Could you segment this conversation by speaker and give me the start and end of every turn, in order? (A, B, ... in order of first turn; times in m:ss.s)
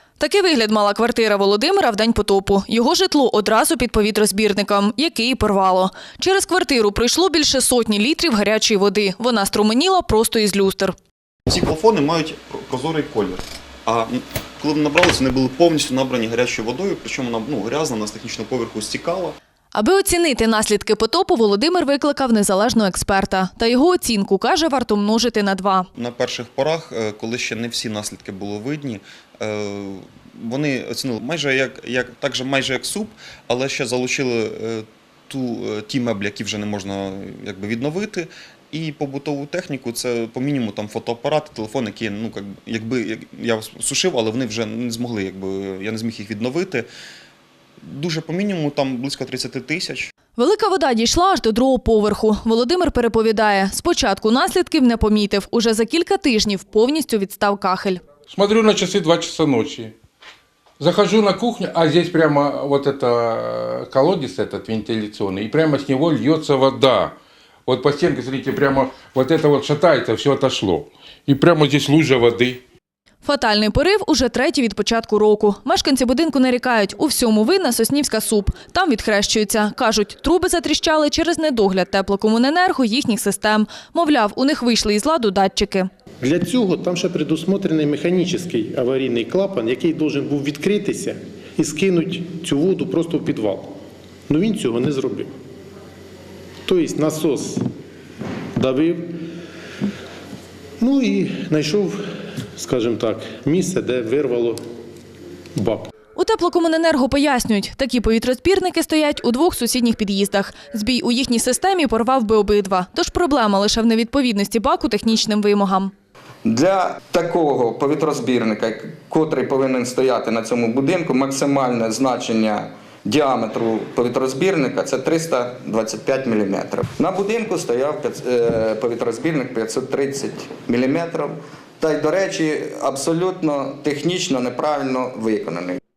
0:00.2-0:10.9 A
0:11.5-0:19.4 B
0:19.7-0:25.9 A
0:26.0-0:46.9 B
0:47.8-0:50.1 B
0:50.4-0:58.0 A
0:58.3-0:59.9 C
1:00.8-1:07.2 C
1:07.7-1:12.6 C
1:13.2-1:25.9 A
1:26.2-1:33.7 D
1:34.3-1:35.3 D
1:36.6-1:37.6 D
1:38.6-1:39.2 D
1:40.8-1:42.0 D
1:42.6-1:44.6 D
1:45.6-1:45.9 D
1:46.1-1:55.9 A
1:56.4-2:15.8 E